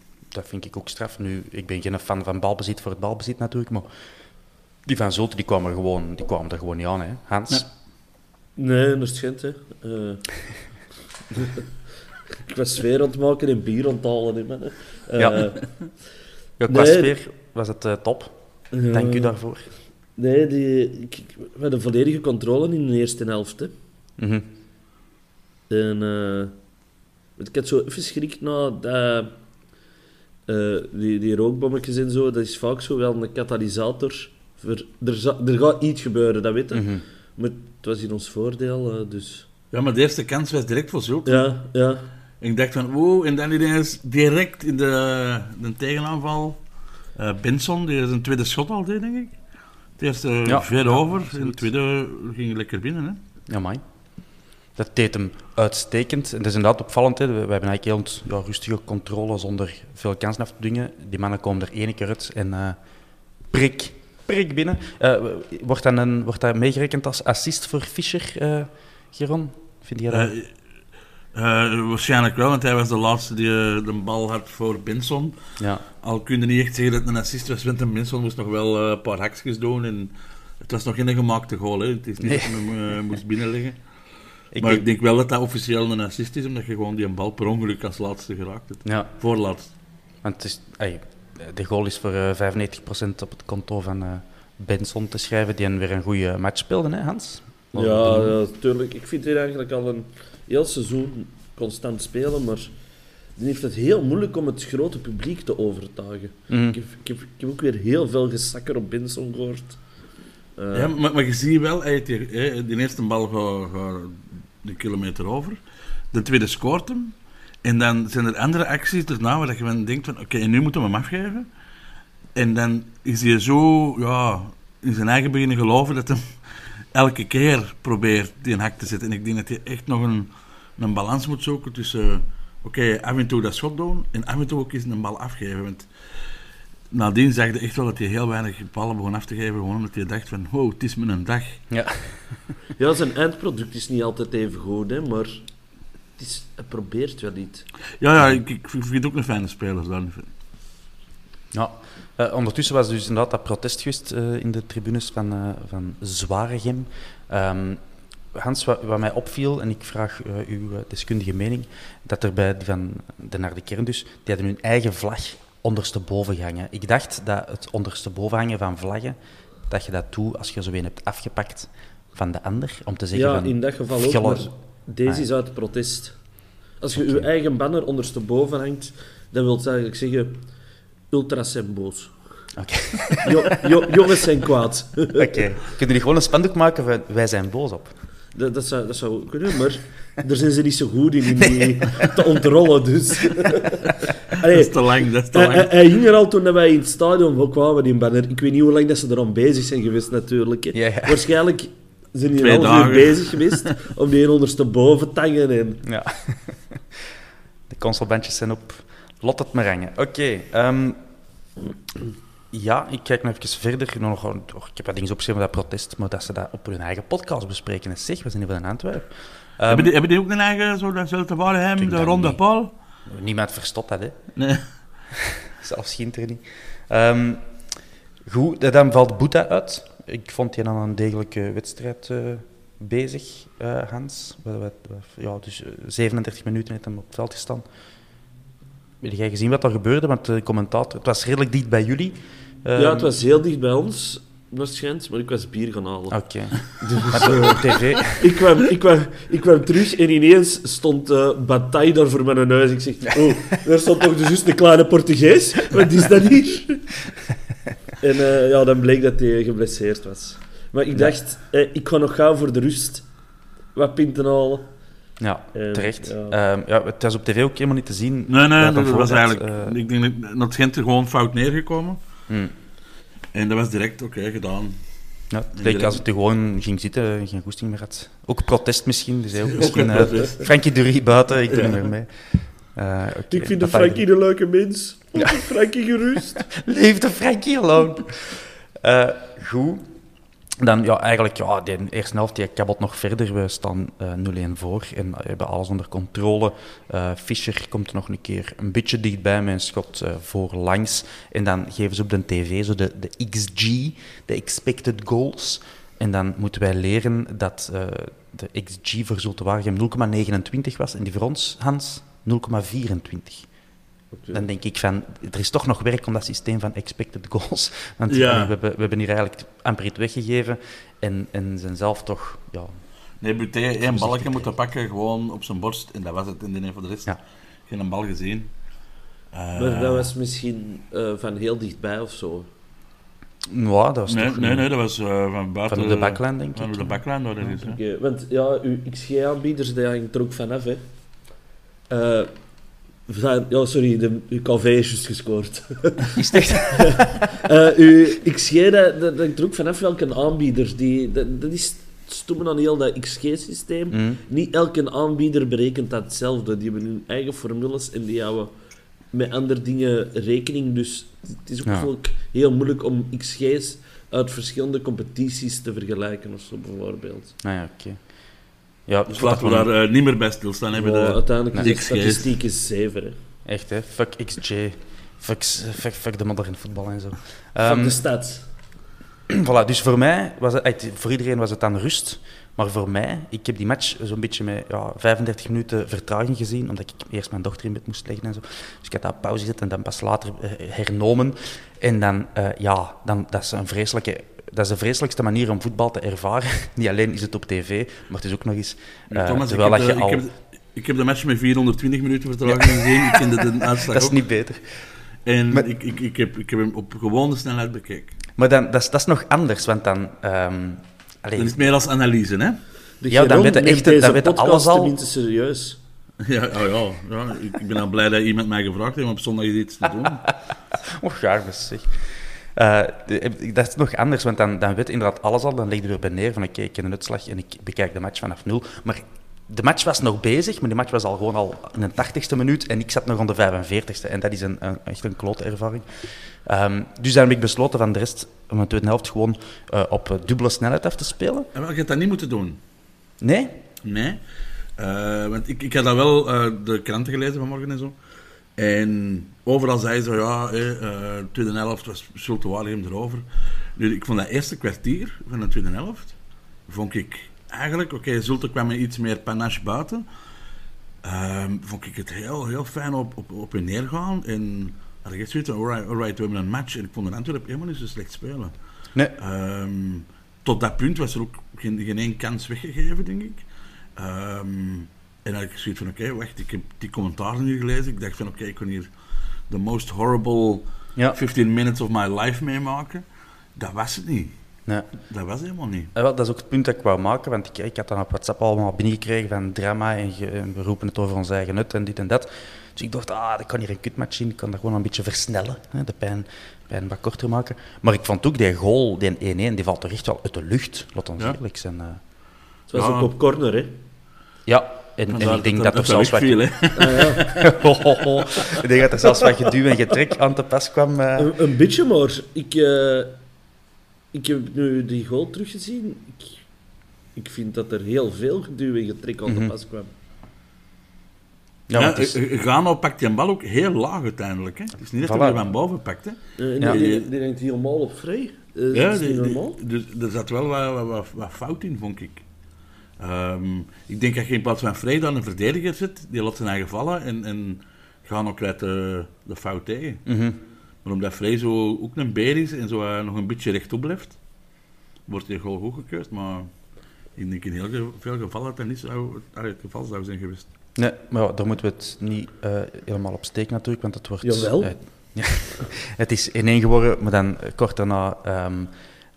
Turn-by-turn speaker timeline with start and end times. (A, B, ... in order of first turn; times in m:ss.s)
0:00.3-0:03.9 A
0:04.8-0:07.7 A
0:08.6-0:10.3 B
0:11.3-0:11.7 B
0:12.4-0:15.7 B
0:15.2-0:15.5 A
0:16.6-0:19.7 A
0:16.7-0:17.1 B
0:18.7-0:19.4 B
0:20.2-0:23.7 B
0:24.2-0:24.5 A
0:25.7-0:26.6 B
0:27.4-0:29.3 B
0:30.5-0:39.5 B
0:36.7-0:37.0 A
0:39.7-0:41.5 C
0:41.2-0:42.1 B
0:42.4-0:46.6 C
0:47.1-0:49.4 C
0:50.0-0:53.2 C
0:50.4-0:51.6 A
0:53.5-0:53.8 A
0:54.7-1:02.8 A
1:03.5-1:10.3 A
1:10.1-1:10.5 C
1:11.3-1:15.3 C
1:15.6-1:15.8 A
1:16.0-1:23.8 C
1:22.2-1:22.6 A
1:24.5-1:24.8 A
1:24.6-1:29.7 C
1:28.8-1:29.1 A
1:30.2-1:38.4 A
1:37.7-1:42.7 B
1:43.4-1:49.8 B
1:46.5-1:46.8 A
1:50.6-1:50.9 B
1:50.7-1:55.6 C
1:56.1-2:01.5 C
2:02.3-2:06.3 C
2:06.9-2:15.9 C
2:16.9-2:21.6 C
2:21.7-2:22.4 A
2:22.8-2:25.4 B
2:26.2-2:27.6 B
2:28.0-2:30.3 C
2:31.5-2:37.8 A
2:38.3-2:49.2 A
2:49.7-2:54.5 A
2:53.1-2:56.2 B
2:56.8-3:00.4 B
2:56.9-2:57.2 A
3:01.1-3:02.2 B
3:02.5-3:03.3 A
3:03.2-3:05.4 B
3:05.1-3:08.0 A
3:08.3-3:25.8 B
3:11.5-3:11.8 A
3:14.5-3:15.7 C
3:20.7-3:21.2 A
3:22.4-3:23.7 C
3:25.8-3:27.0 A
3:27.7-3:31.0 A
3:32.5-3:39.9 A
3:39.7-3:42.7 C
3:41.8-3:42.4 A
3:43.0-3:44.9 A
3:44.4-3:44.7 C
3:45.5-3:47.7 A
3:48.2-3:57.6 A
3:59.0-4:03.1 A
4:02.7-4:16.9 B
4:06.1-4:08.2 A
4:18.0-4:23.1 B
4:23.7-4:24.8 B
4:25.2-4:29.8 A
4:25.5-4:26.4 B
4:28.3-4:32.0 C
4:32.3-4:32.5 A
4:33.3-4:34.8 C
4:35.3-4:44.0 A
4:35.5-4:36.0 C
4:39.5-4:40.5 C
4:41.5-4:41.9 C
4:43.3-4:46.4 B
4:46.5-4:49.9 A
4:50.6-5:13.5 A
5:14.1-5:14.4 B
5:14.3-5:22.8 A
5:18.1-5:18.5 C
5:23.2-5:28.5 C
5:23.8-5:24.5 A
5:29.3-5:30.1 C
5:29.5-5:32.5 B
5:33.5-5:34.7 A
5:34.1-5:37.8 C
5:35.7-5:37.0 A
5:37.6-5:41.0 B
5:41.9-5:42.4 B
5:43.0-5:58.5 B
5:46.2-5:47.1 A
5:53.9-5:54.2 A
5:59.1-6:07.3 B
6:07.4-6:08.1 A
6:08.8-6:09.7 A
6:09.1-6:12.3 C
6:10.7-6:13.2 B
6:13.4-6:18.0 A
6:17.6-6:18.5 B
6:19.3-6:40.2 A
6:39.1-6:44.2 C
6:42.4-6:44.9 A
6:45.2-6:48.1 C
6:48.4-6:51.7 A
6:51.4-6:52.6 C
6:53.0-6:55.8 B
6:53.1-6:54.9 A
6:56.2-7:00.3 C
7:00.7-7:21.5 A
7:21.5-7:22.6 C
7:23.2-7:23.6 A
7:23.8-7:24.2 C
7:24.8-7:27.9 C
7:28.6-7:33.2 C
7:33.8-7:36.1 C
7:36.7-7:40.0 C
7:41.0-7:48.5 C
7:49.1-7:53.4 C
7:54.0-7:58.9 C
7:59.5-8:03.0 C
8:03.6-8:04.3 C
8:05.1-8:05.9 C
8:05.9-8:22.0 A
8:22.7-8:23.8 B
8:22.7-8:23.1 C
8:24.4-8:31.3 A
8:25.1-8:27.5 C
8:26.8-8:27.2 B
8:31.2-8:33.2 B
8:34.1-8:36.4 B
8:37.1-8:39.9 B
8:39.2-8:39.5 A
8:41.7-8:42.2 A
8:41.7-8:47.0 C
8:45.0-8:45.4 A
8:46.4-8:49.6 B
8:48.7-8:52.2 C
8:53.0-9:00.1 C
9:00.0-9:00.4 A
9:00.8-9:04.2 C
9:05.1-9:06.5 C
9:07.2-9:10.5 C
9:10.8-9:18.7 A
9:14.2-9:15.1 B